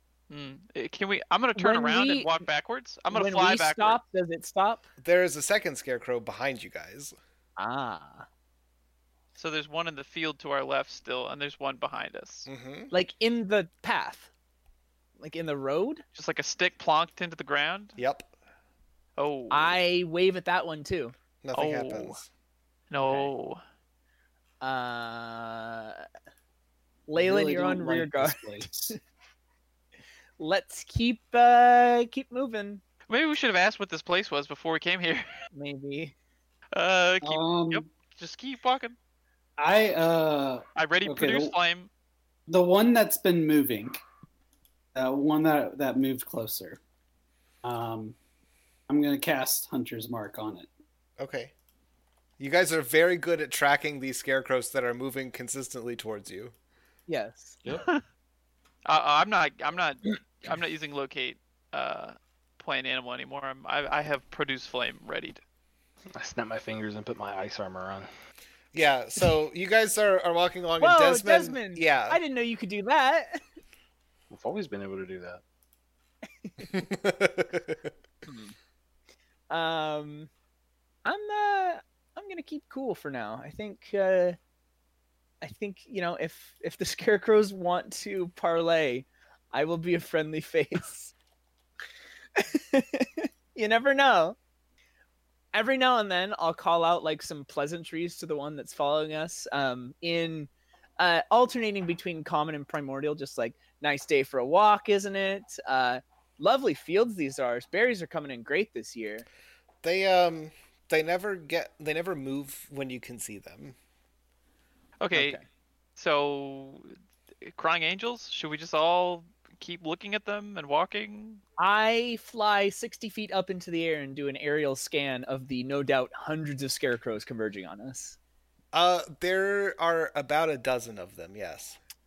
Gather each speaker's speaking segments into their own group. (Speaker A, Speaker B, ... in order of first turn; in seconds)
Speaker A: 0.3-4.0, 9.4-12.5, 16.1-18.0, 19.2-19.8, 21.5-22.2, 22.9-23.6, 33.1-35.3, 36.7-39.0, 40.8-41.9, 58.9-65.4, 115.0-115.4, 116.0-121.4
Speaker B: 1.6-2.4, 3.1-4.9, 7.6-8.2, 12.9-14.3, 15.2-16.0, 19.5-21.1, 23.0-23.3, 24.6-26.1, 27.1-29.0, 30.4-32.8, 35.5-36.1, 57.1-57.6, 70.8-73.4, 78.2-78.5, 79.5-80.3, 81.0-84.4, 85.4-91.1, 92.3-94.3, 95.5-109.2, 115.1-115.5, 121.6-128.2
Speaker C: 5.0-7.1, 12.5-12.9, 18.0-18.3, 21.4-22.3, 51.2-51.5, 52.4-56.5, 68.7-72.2, 76.6-77.9, 109.8-113.8, 128.7-131.8
Speaker D: 27.2-28.9, 37.2-37.8, 39.6-41.5, 42.5-44.0, 44.9-46.8, 47.6-48.1, 48.9-50.7
Speaker E: 66.1-68.1, 74.3-75.4